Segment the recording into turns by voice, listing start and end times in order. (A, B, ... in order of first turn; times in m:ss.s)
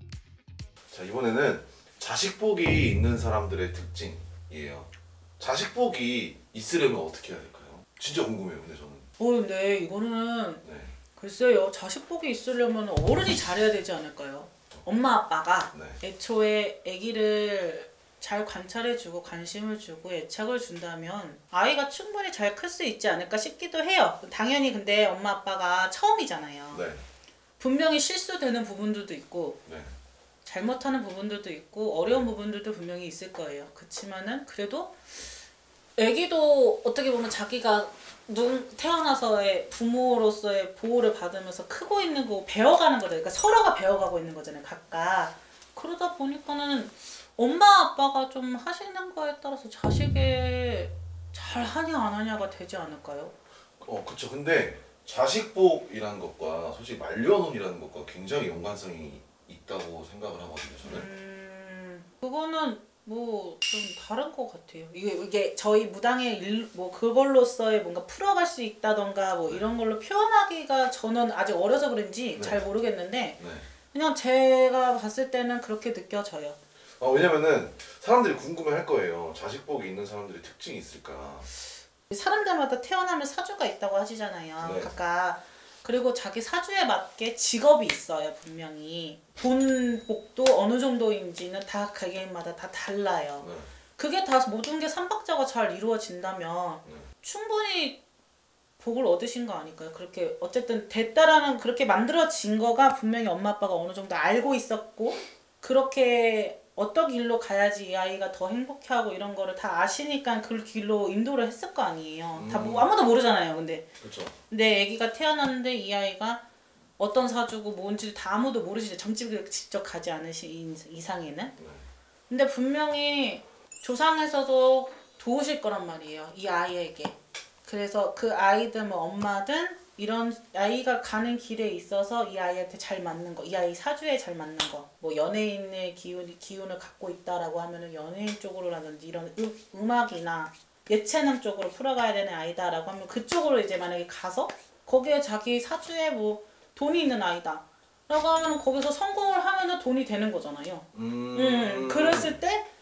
0:00.9-0:09.1 A
0:09.2-0:26.8 B
0:10.6-0:10.9 A
0:15.7-0:16.0 A
0:26.7-0:27.0 A
0:27.6-0:29.6 B
0:29.6-0:29.9 A
0:30.4-0:35.2 B
0:36.0-0:53.3 B
0:53.8-1:01.1 A
1:00.8-1:16.6 B
1:12.3-1:12.6 A
1:13.4-1:13.7 A
1:17.0-1:21.5 A
1:22.1-1:38.0 B
1:24.6-1:24.9 A
1:33.4-1:33.7 A
1:38.8-1:53.9 B
1:52.3-1:52.9 A
1:54.0-1:54.3 A
1:54.5-1:56.4 B
1:57.0-2:01.6 B
2:01.6-2:01.8 A
2:02.3-2:32.7 B
2:30.9-2:32.4 A